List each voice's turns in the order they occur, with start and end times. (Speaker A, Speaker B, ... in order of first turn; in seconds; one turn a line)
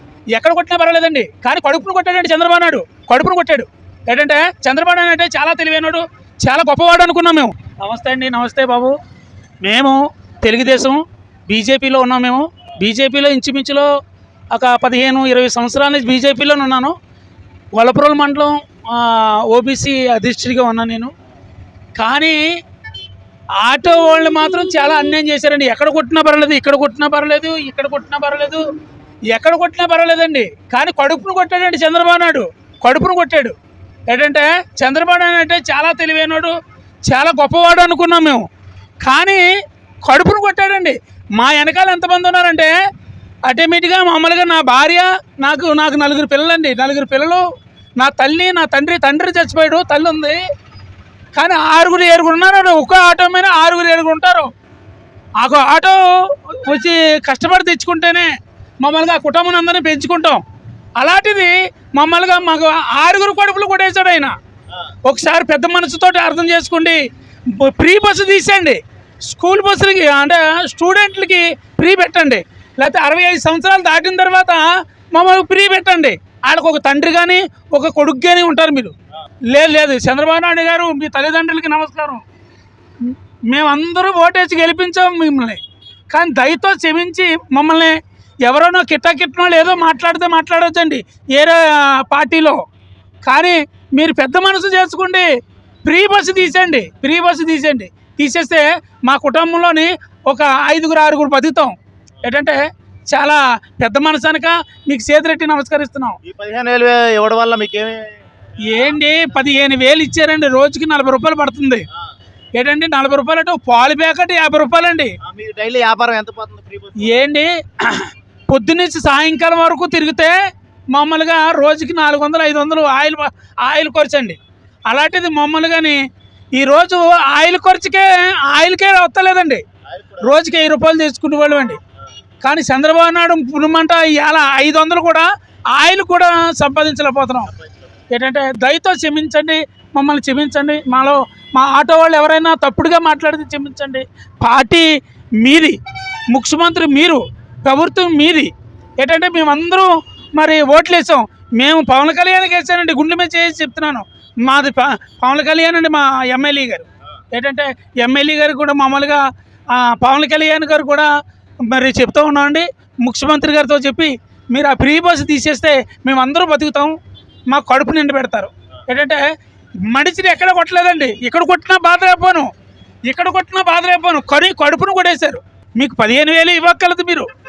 Speaker A: 0.3-8.9
Speaker A: 9.6-13.9
Speaker A: 14.5-16.9
Speaker A: 17.7-21.1
Speaker A: 22.0-22.4
Speaker A: 23.6-28.6
Speaker A: 29.3-33.5
Speaker A: 34.1-36.5
Speaker A: 37.1-38.4
Speaker A: 39.0-39.4
Speaker A: 40.0-42.7
Speaker A: 43.5-47.4
Speaker A: 48.0-50.4
Speaker A: 51.3-54.5
Speaker A: 55.4-60.4
Speaker A: 61.0-64.3
Speaker A: 65.1-67.0
Speaker A: 67.5-78.9
Speaker A: 79.5-82.2
Speaker A: 83.0-92.6
Speaker A: 93.2-95.3
Speaker A: 95.8-106.2
Speaker B: 106.2-109.4
Speaker A: 108.7-111.8
Speaker A: 112.5-115.1
Speaker B: 115.2-117.2
Speaker A: 117.0-120.3
Speaker A: 120.9-124.4
Speaker A: 124.9-126.0
Speaker A: 126.5-129.6
Speaker B: 129.9-130.4
Speaker A: 130.2-131.8
Speaker A: 132.4-137.5
Speaker B: 137.4-138.0
Speaker A: 138.1-144.9
Speaker A: 145.4-145.8
Speaker A: 146.3-161.1
Speaker A: 161.7-166.9
Speaker A: 167.5-169.2
Speaker A: 169.9-172.5
Speaker A: 173.1-177.3